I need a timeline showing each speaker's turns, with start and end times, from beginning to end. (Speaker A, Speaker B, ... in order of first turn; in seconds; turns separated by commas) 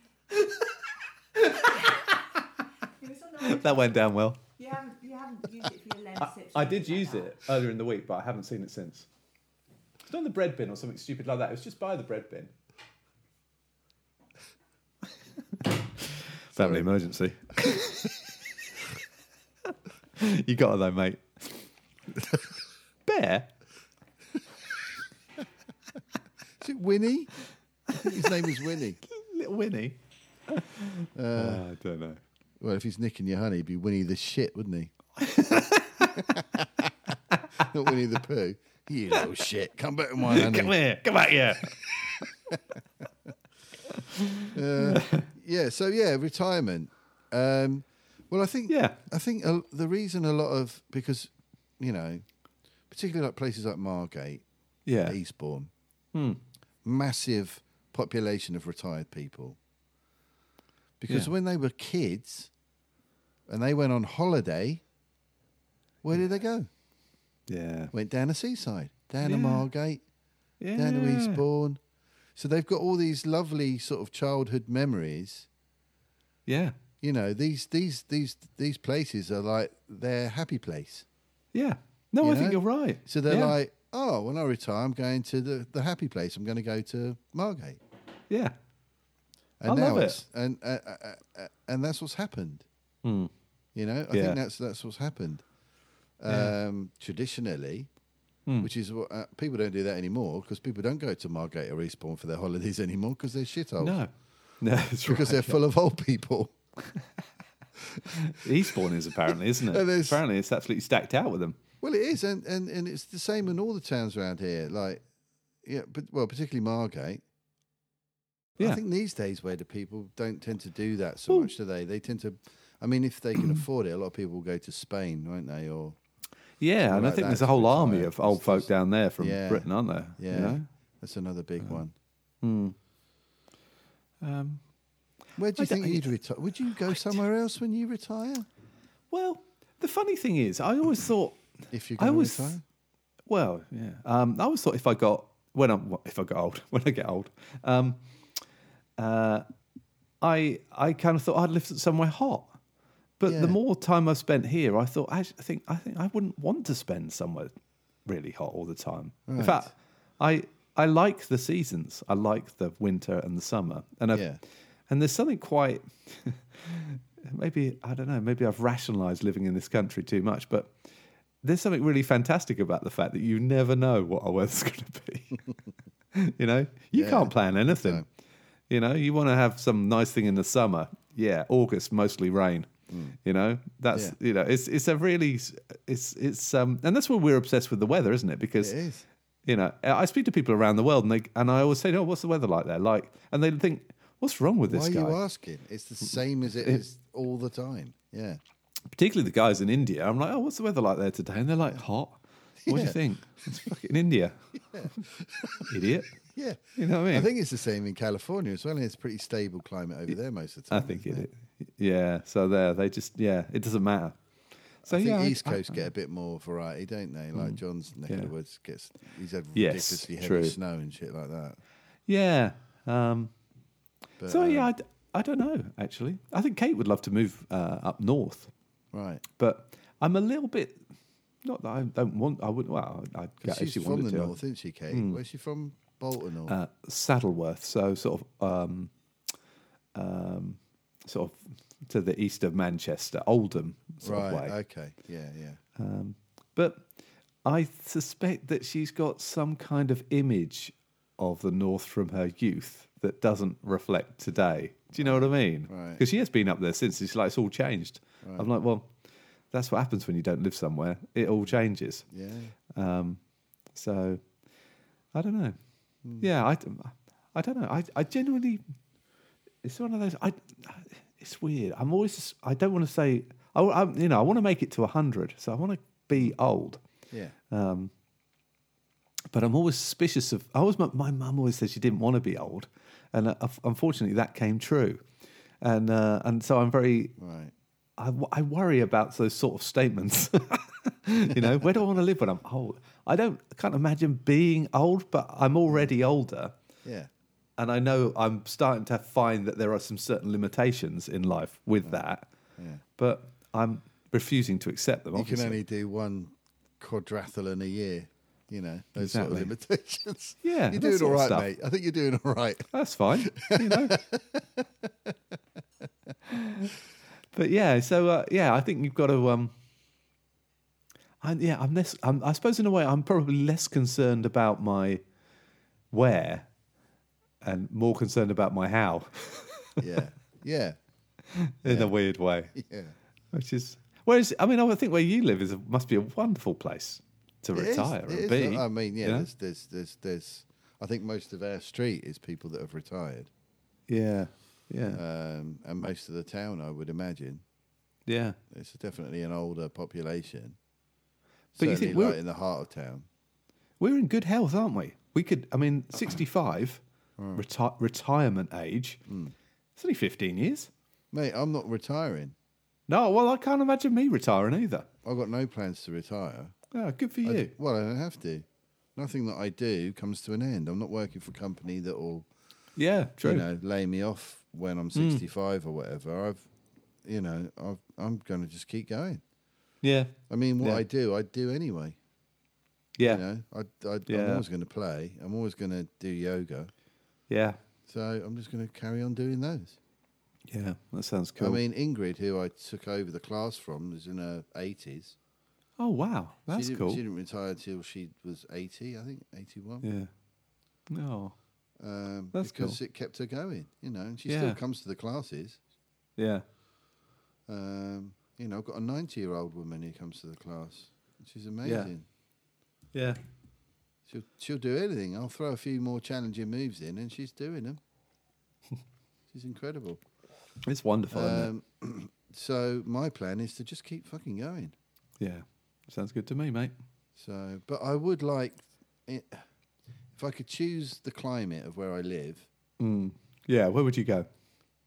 Speaker A: 1.4-2.4, Speaker B: 3.0-4.0, Speaker A: 3.4-4.4, Speaker B: 4.5-7.4, Speaker A: 6.2-9.1, Speaker A: 10.1-12.5, Speaker A: 15.7-18.1, Speaker C: 16.5-16.9, Speaker A: 20.1-21.7, Speaker A: 23.0-23.5, Speaker C: 26.6-27.4, Speaker C: 27.9-29.0, Speaker A: 29.1-32.2, Speaker C: 31.1-31.6, Speaker C: 32.6-34.9, Speaker A: 35.2-36.4, Speaker C: 36.1-36.9, Speaker C: 37.5-40.9, Speaker A: 40.2-42.2, Speaker A: 43.9-45.3, Speaker C: 44.5-52.2, Speaker A: 48.7-49.0, Speaker C: 52.9-54.4, Speaker A: 54.9-55.2, Speaker C: 55.0-55.7, Speaker A: 56.1-56.4, Speaker C: 56.8-59.6, Speaker C: 61.0-62.5, Speaker C: 63.5-64.8, Speaker C: 66.0-66.7, Speaker A: 67.5-67.9, Speaker C: 67.9-70.0, Speaker A: 69.2-69.7, Speaker A: 70.6-71.4, Speaker C: 70.7-71.8, Speaker C: 72.3-75.5, Speaker A: 76.5-76.8, Speaker C: 77.0-81.0, Speaker A: 81.5-83.6, Speaker C: 82.2-87.8, Speaker A: 88.3-88.5, Speaker C: 89.6-92.7, Speaker A: 89.7-90.2, Speaker A: 93.0-93.3, Speaker C: 93.7-95.4, Speaker A: 94.1-94.4, Speaker C: 96.2-97.9, Speaker A: 96.3-96.5, Speaker C: 98.6-104.0, Speaker A: 103.8-105.6, Speaker C: 105.0-106.5, Speaker C: 107.9-110.2, Speaker A: 108.1-111.6, Speaker C: 111.8-115.0, Speaker C: 115.6-117.2, Speaker C: 118.6-126.0, Speaker A: 126.6-130.7, Speaker C: 126.9-131.9, Speaker A: 132.4-132.8, Speaker A: 134.2-134.6, Speaker C: 135.4-138.4, Speaker A: 135.6-136.1, Speaker A: 139.1-142.6, Speaker C: 141.7-142.6, Speaker A: 143.3-148.0, Speaker A: 149.0-149.4, Speaker A: 150.2-152.6, Speaker A: 153.2-157.5, Speaker C: 153.2-153.6, Speaker A: 158.1-164.2, Speaker C: 159.3-159.7, Speaker C: 164.1-164.4, Speaker A: 164.9-170.7, Speaker A: 171.4-175.4, Speaker A: 176.1-178.0, Speaker C: 176.9-178.0, Speaker A: 178.7-182.7, Speaker C: 182.9-183.2, Speaker A: 183.2-188.7, Speaker C: 188.6-189.1, Speaker A: 189.4-195.2, Speaker C: 194.7-198.4, Speaker A: 198.9-204.9, Speaker C: 202.6-203.0, Speaker C: 204.7-205.7, Speaker A: 205.7-206.1, Speaker C: 206.3-211.3, Speaker A: 206.7-207.3, Speaker A: 210.7-214.2, Speaker A: 214.8-215.9, Speaker C: 214.8-221.6, Speaker A: 217.3-218.3, Speaker A: 219.5-220.6, Speaker A: 222.1-223.3, Speaker C: 224.2-224.7, Speaker A: 224.2-228.5, Speaker C: 228.9-229.2, Speaker A: 229.4-230.8, Speaker A: 231.4-234.3, Speaker C: 233.4-236.6, Speaker A: 234.9-235.2, Speaker A: 236.5-238.9, Speaker A: 239.9-244.5, Speaker C: 244.0-245.6, Speaker A: 245.8-246.9, Speaker A: 247.4-258.9, Speaker C: 255.0-256.0, Speaker C: 258.2-258.5, Speaker A: 259.5-262.0, Speaker C: 262.1-262.5, Speaker A: 262.7-263.2, Speaker A: 263.7-264.2, Speaker A: 265.1-265.6, Speaker A: 266.2-268.6, Speaker A: 269.6-276.8, Speaker A: 277.5-277.9, Speaker A: 279.3-285.0, Speaker A: 285.6-287.2, Speaker C: 287.2-287.5, Speaker A: 288.0-296.5, Speaker C: 296.8-297.1, Speaker A: 297.6-302.3, Speaker C: 302.6-302.8, Speaker A: 303.0-305.6, Speaker C: 305.1-315.1, Speaker A: 309.0-309.5, Speaker A: 310.4-311.5, Speaker A: 312.7-314.0, Speaker A: 316.3-316.7, Speaker A: 317.3-319.5, Speaker A: 321.2-325.0, Speaker A: 325.9-326.5, Speaker A: 327.4-329.8, Speaker C: 329.8-330.8, Speaker A: 331.3-332.5, Speaker C: 331.6-331.9, Speaker C: 332.5-332.9, Speaker A: 333.3-339.3, Speaker C: 337.5-343.3, Speaker A: 343.9-345.0, Speaker C: 344.9-347.4, Speaker A: 348.1-348.4, Speaker C: 348.5-350.6, Speaker C: 351.6-353.1, Speaker A: 351.6-352.2, Speaker A: 353.8-356.8, Speaker C: 357.2-357.4, Speaker A: 357.3-359.0, Speaker C: 359.1-359.3, Speaker A: 359.8-360.7, Speaker C: 361.1-362.3, Speaker A: 362.9-364.9, Speaker C: 365.0-366.6, Speaker A: 366.7-367.5, Speaker C: 367.2-372.3, Speaker A: 372.8-373.5, Speaker C: 373.2-376.5, Speaker A: 374.9-375.2, Speaker C: 377.0-379.2, Speaker A: 379.8-380.8, Speaker C: 380.3-382.0, Speaker A: 383.0-383.2, Speaker C: 383.0-386.7, Speaker A: 384.1-384.4, Speaker A: 387.3-387.6, Speaker C: 387.9-389.8, Speaker A: 390.5-391.6, Speaker C: 391.4-395.1, Speaker A: 395.8-397.0, Speaker C: 396.5-399.9, Speaker A: 399.8-400.1, Speaker A: 400.9-401.4, Speaker C: 401.8-405.6, Speaker A: 402.3-402.8, Speaker A: 404.3-404.6, Speaker A: 406.2-406.4, Speaker C: 407.5-412.1, Speaker A: 411.6-411.9, Speaker C: 414.1-417.8, Speaker C: 419.3-420.0, Speaker A: 420.6-421.5, Speaker C: 421.1-424.7, Speaker A: 425.2-426.7, Speaker C: 427.1-429.4, Speaker C: 430.1-432.5, Speaker A: 432.8-434.3